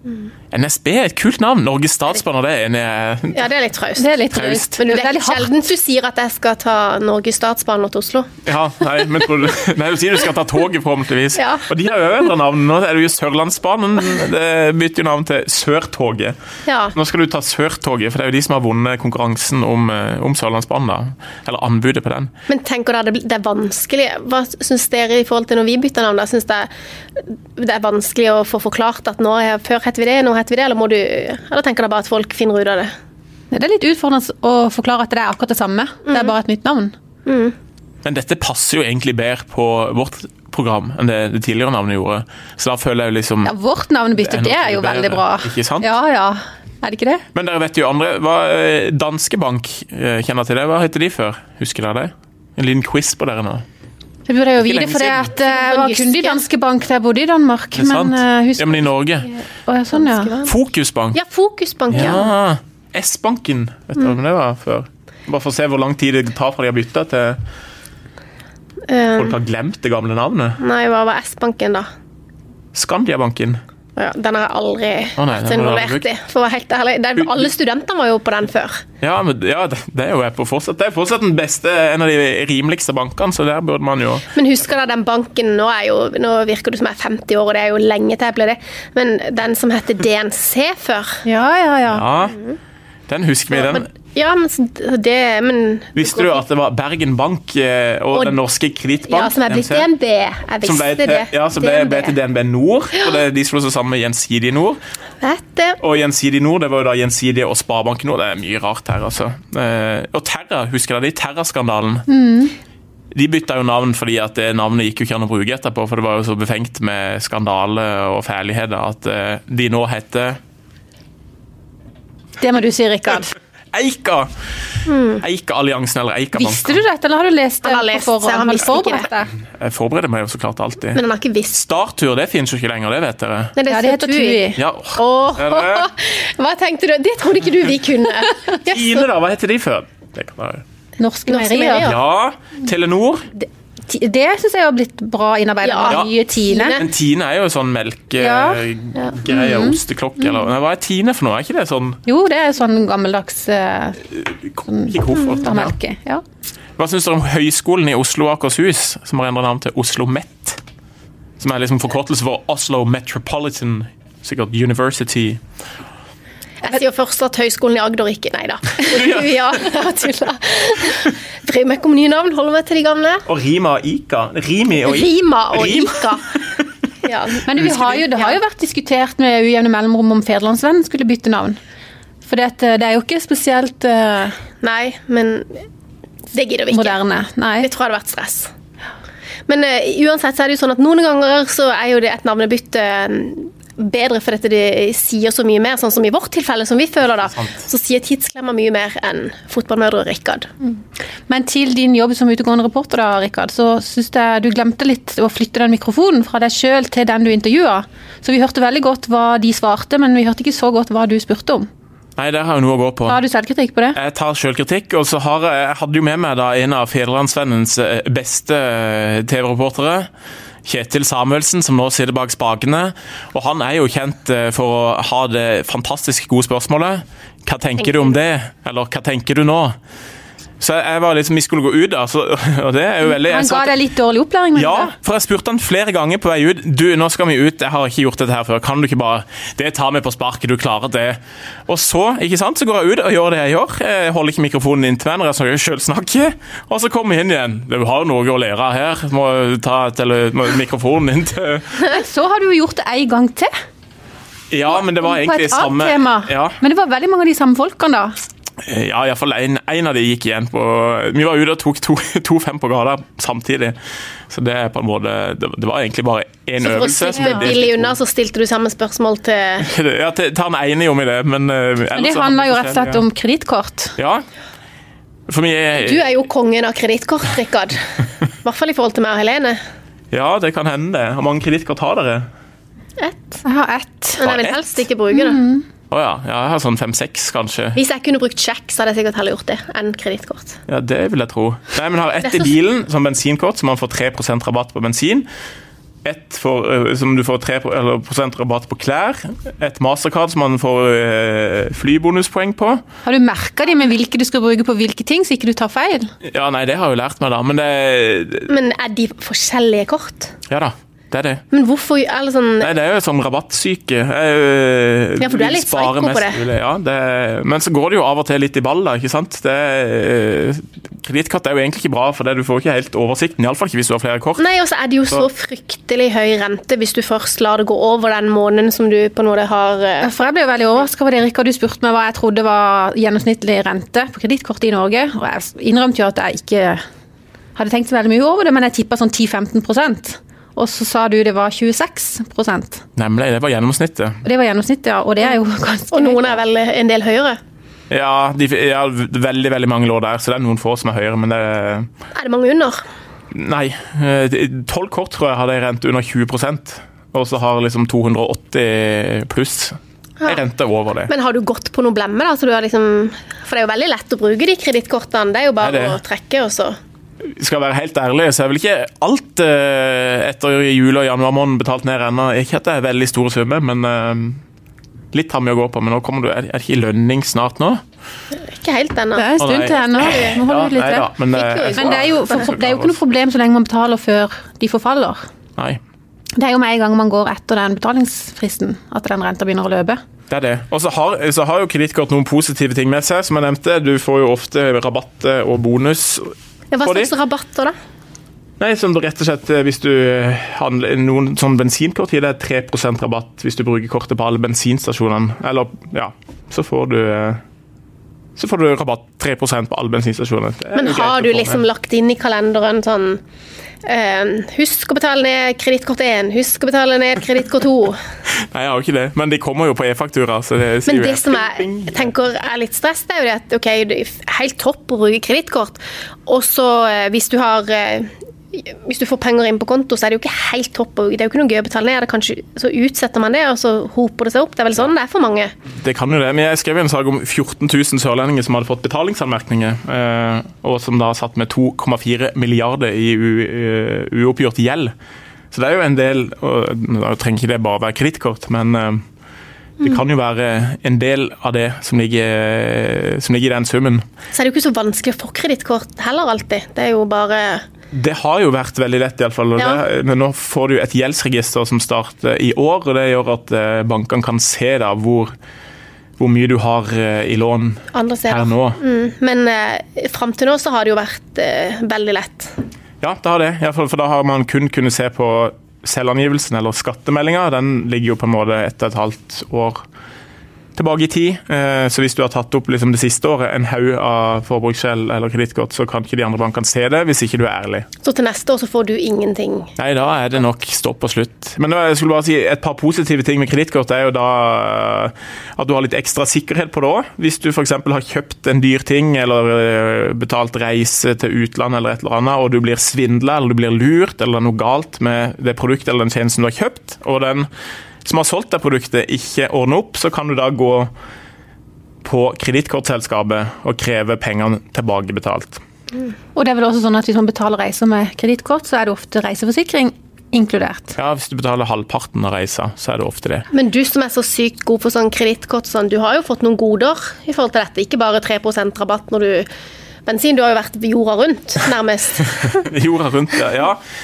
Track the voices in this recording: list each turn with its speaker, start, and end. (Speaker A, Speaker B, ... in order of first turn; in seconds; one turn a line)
Speaker A: 0.5-3.5
Speaker B: 3.3-4.1
Speaker C: 4.0-5.5
Speaker A: 4.3-4.8
Speaker B: 4.8-8.3
Speaker A: 8.4-16.4
Speaker B: 11.4-11.6
Speaker B: 16.7-16.9
Speaker A: 16.9-22.3
Speaker B: 22.5-32.9
Speaker C: 33.5-36.9
Speaker B: 37.3-37.5
Speaker A: 38.0-43.5
Speaker C: 43.5-47.2
Speaker A: 44.2-45.9
Speaker A: 47.3-53.6
Speaker C: 54.3-60.4
Speaker A: 54.6-55.3
Speaker B: 55.4-56.4
Speaker A: 57.8-59.3
Speaker B: 60.0-60.5
Speaker A: 60.5-61.2
Speaker B: 61.1-62.3
Speaker A: 61.9-67.4
Speaker B: 68.9-69.4
Speaker A: 69.2-70.6
Speaker B: 70.6-71.9
Speaker A: 72.8-73.6
Speaker B: 74.0-78.8
Speaker A: 75.2-76.1
Speaker A: 77.2-77.5
Speaker A: 79.0-84.3
Speaker B: 84.3-91.2
Speaker C: 91.2-92.1
Speaker A: 91.9-92.4
Speaker B: 92.3-92.6
Speaker A: 93.1-93.9
Speaker B: 93.5-96.4
Speaker A: 96.0-99.9
Speaker B: 99.1-102.2
Speaker A: 100.6-104.8
Speaker B: 105.2-105.8
Speaker A: 105.8-112.1
Speaker C: 112.1-112.5
Speaker A: 113.1-120.4
Speaker C: 122.4-123.3
Speaker A: 123.7-124.3
Speaker B: 124.9-125.2
Speaker A: 125.2-126.8
Speaker C: 126.4-129.3
Speaker B: 127.6-129.1
Speaker A: 129.5-131.0
Speaker B: 130.9-131.6
Speaker A: 131.5-133.6
Speaker B: 133.6-134.4
Speaker C: 133.7-134.6
Speaker A: 134.6-135.9
Speaker B: 135.0-139.1
Speaker A: 138.6-140.6
Speaker C: 141.0-141.9
Speaker B: 141.3-142.0
Speaker A: 141.8-143.3
Speaker C: 143.4-146.8
Speaker B: 145.6-146.9
Speaker A: 146.8-152.0
Speaker C: 148.2-148.6
Speaker C: 149.3-149.8
Speaker C: 152.1-154.0
Speaker A: 154.2-155.8
Speaker C: 154.7-156.2
Speaker A: 156.8-160.6
Speaker A: 161.4-165.4
Speaker B: 166.6-173.2
Speaker A: 168.9-169.5
Speaker A: 173.3-176.2
Speaker B: 174.8-176.2
Speaker B: 177.0-178.4
Speaker C: 177.4-181.6
Speaker A: 177.7-178.0
Speaker C: 182.2-184.4
Speaker B: 184.6-185.6
Speaker B: 186.3-187.0
Speaker C: 186.7-187.7
Speaker B: 187.6-188.5
Speaker B: 189.5-200.5
Speaker C: 201.3-211.7
Speaker A: 212.2-213.2
Speaker C: 213.1-214.0
Speaker A: 213.9-220.1
Speaker A: 220.7-229.8
Speaker A: 230.6-233.7
Speaker C: 233.1-234.9
Speaker A: 234.6-251.8
Speaker C: 251.8-253.5
Speaker A: 254.5-256.6
Speaker C: 254.8-258.2
Speaker A: 258.6-263.8
Speaker A: 264.3-267.9
Speaker B: 266.6-269.7
Speaker C: 267.2-267.4
Speaker A: 269.6-273.0
Speaker C: 271.9-273.9
Speaker A: 274.0-274.2
Speaker A: 275.3-276.0
Speaker B: 275.8-277.8
Speaker B: 278.4-279.6
Speaker A: 280.1-282.3
Speaker B: 283.0-283.4
Speaker C: 283.4-284.4
Speaker B: 284.2-285.4
Speaker A: 284.2-284.6
Speaker C: 285.1-285.7
Speaker A: 285.9-287.8
Speaker B: 287.8-290.6
Speaker A: 290.7-295.3
Speaker A: 296.0-302.8
Speaker C: 303.1-306.1
Speaker A: 306.2-308.5
Speaker B: 308.5-310.3
Speaker A: 310.5-311.4
Speaker B: 311.5-312.7
Speaker A: 312.6-324.4
Speaker B: 315.2-316.4
Speaker B: 324.4-330.1
Speaker C: 330.0-336.8
Speaker C: 337.6-342.8
Speaker A: 343.0-344.2
Speaker C: 344.2-346.4
Speaker B: 345.9-347.4
Speaker A: 347.9-351.9
Speaker B: 352.1-352.8
Speaker A: 353.3-361.1
Speaker B: 361.1-366.8
Speaker A: 365.6-366.0
Speaker A: 367.4-374.4
Speaker A: 375.1-377.8
Speaker B: 378.3-380.4
Speaker C: 379.1-381.1
Speaker A: 379.4-383.0
Speaker B: 381.3-382.2
Speaker C: 381.7-385.2
Speaker C: 386.4-390.0
Speaker A: 390.3-397.1
Speaker B: 396.7-397.8
Speaker A: 398.6-407.4
Speaker A: 408.4-411.6
Speaker B: 410.8-413.2
Speaker B: 413.8-418.0
Speaker A: 418.5-422.1
Speaker B: 420.9-435.5
Speaker A: 435.8-444.9
Speaker A: 445.5-449.0
Speaker A: 449.8-454.0
Speaker B: 454.3-457.6
Speaker A: 457.9-465.3
Speaker A: 466.2-468.8
Speaker B: 467.9-472.5
Speaker A: 473.0-479.8
Speaker A: 480.8-487.9
Speaker B: 488.0-489.7
Speaker A: 489.8-507.5
Speaker A: 508.0-510.9
Speaker A: 512.0-515.6
Speaker C: 516.4-520.9
Speaker A: 521.0-523.5
Speaker B: 523.5-529.5
Speaker B: 530.1-532.6
Speaker A: 532.6-533.8